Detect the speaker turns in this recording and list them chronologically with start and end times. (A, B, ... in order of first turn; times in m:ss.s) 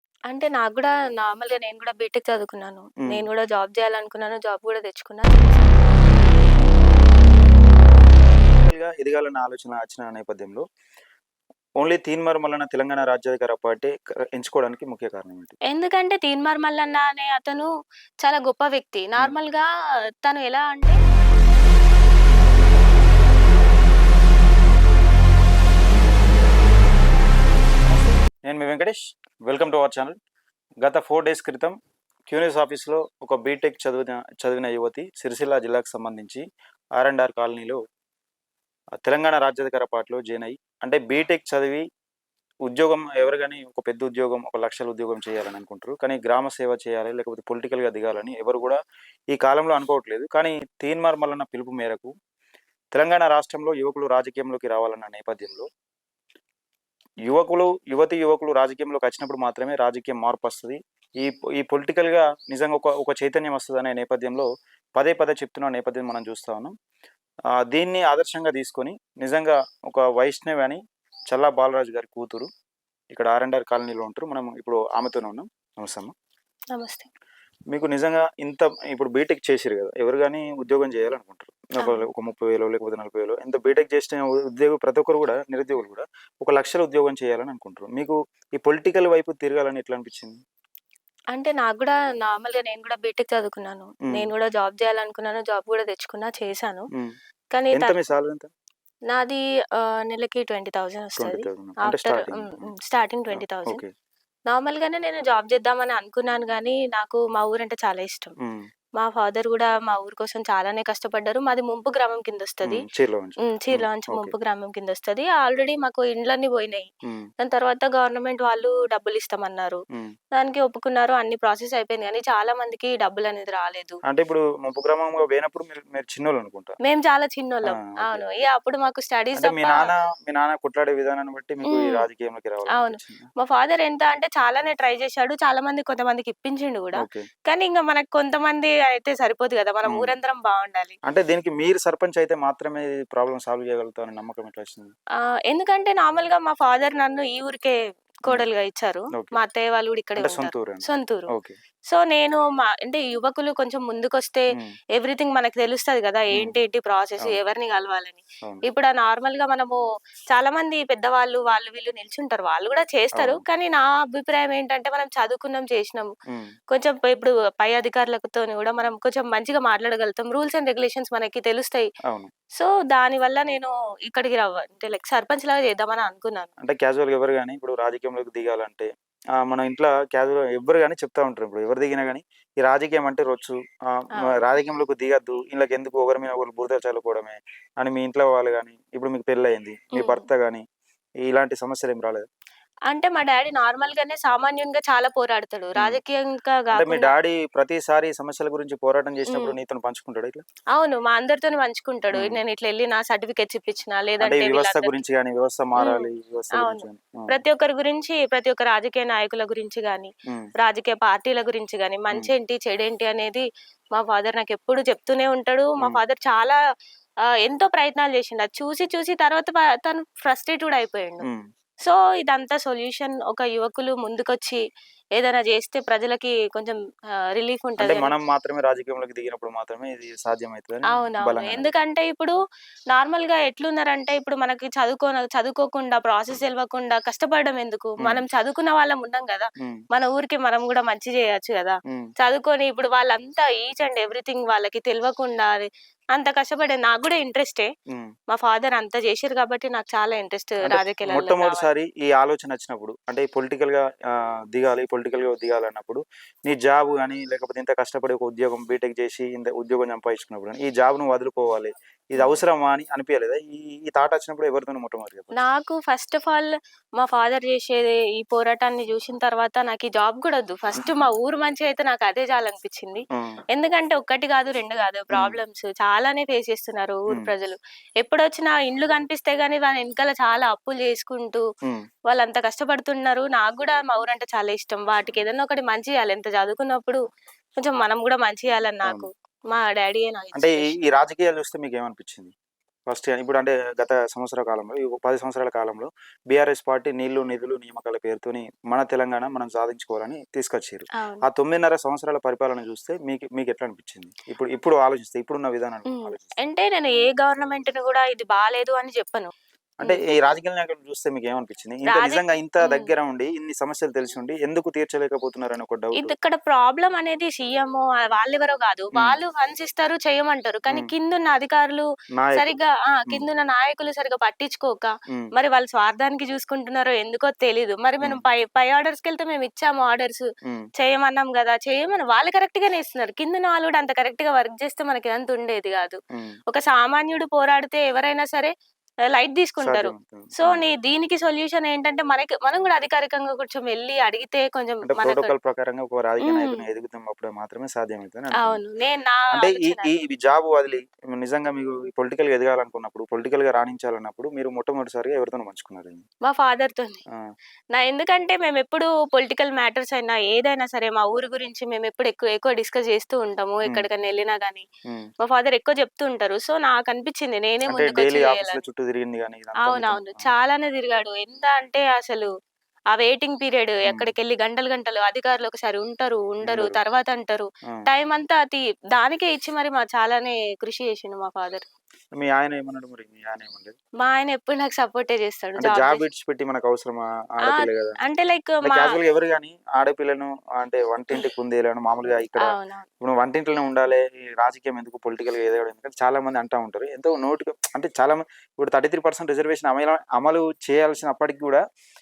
0:00.3-0:06.3 A
0:08.6-0:10.6 B
0:11.8-0:15.6 B
0:15.7-0:17.7 A
0:18.2-0:19.7 A
0:20.2-0:21.0 A
0:28.4-0:30.2 B
0:30.8-0:31.8 B
0:32.3-0:36.4 B
0:37.0-0:37.8 B
0:39.0-0:41.8 B
0:42.7-0:48.8 B
0:49.3-0:52.1 B
0:53.0-0:55.7 B
0:57.3-1:06.7 B
1:07.6-1:12.5 B
1:13.1-1:16.1 B
1:16.7-1:17.1 A
1:17.7-1:30.4 B
1:31.3-1:36.9 A
1:37.5-1:37.9 A
1:37.7-1:38.5 B
1:39.1-1:43.8 A
1:41.2-1:42.7 B
1:43.3-1:43.9 B
1:44.5-1:48.3 A
1:49.0-1:52.8 A
1:52.6-1:54.4 B
1:53.5-1:56.9 A
1:57.4-1:59.8 A
2:00.4-2:04.0 A
2:04.1-2:06.8 B
2:06.8-2:09.9 A
2:07.7-2:08.2 B
2:09.4-2:13.3 B
2:11.7-2:12.1 A
2:12.7-2:21.0 A
2:17.0-2:17.3 B
2:19.9-2:20.1 B
2:21.1-2:24.9 B
2:25.5-2:31.3 A
2:29.1-2:29.4 B
2:30.2-2:31.6 B
2:31.9-2:46.1 A
2:43.2-2:43.4 B
2:46.7-2:51.9 A
2:52.6-2:56.5 A
2:56.6-2:58.9 B
2:59.4-3:10.6 B
3:10.0-3:10.2 A
3:11.3-3:12.3 B
3:12.9-3:17.1 A
3:16.7-3:20.4 B
3:20.7-3:25.0 A
3:22.1-3:22.4 B
3:24.2-3:27.4 B
3:25.8-3:36.6 A
3:37.4-3:41.2 A
3:41.8-3:44.6 A
3:45.2-3:46.8 A
3:47.3-3:48.1 A
3:47.8-3:51.7 B
3:50.9-3:52.4 A
3:52.9-4:07.7 A
4:08.3-4:11.7 A
4:10.7-4:25.4 B
4:25.3-4:41.4 A
4:33.1-4:33.4 B
4:35.1-4:35.4 B
4:42.1-4:47.0 A
4:47.6-4:50.7 A
4:50.4-4:52.3 B
4:52.9-5:06.4 B
5:01.0-5:01.2 A
5:05.9-5:09.3 A
5:09.8-5:16.1 B
5:11.9-5:12.9 A
5:16.0-5:38.5 A
5:22.2-5:22.6 B
5:36.1-5:36.4 B
5:39.1-5:45.3 A
5:39.6-5:40.6 B
5:44.9-5:48.6 B
5:46.2-5:46.6 A
5:48.4-5:49.9 A
5:49.4-5:56.0 B
5:56.2-5:57.0 A
5:57.7-6:04.7 A
6:05.2-6:08.6 A
6:07.7-6:10.3 B
6:09.6-6:12.3 A
6:12.9-6:21.7 A
6:13.8-6:14.1 B
6:16.4-6:16.8 B
6:22.2-6:23.8 B
6:24.0-6:26.0 A
6:25.6-6:28.0 B
6:27.5-6:28.9 A
6:28.6-6:41.6 B
6:32.4-6:32.9 A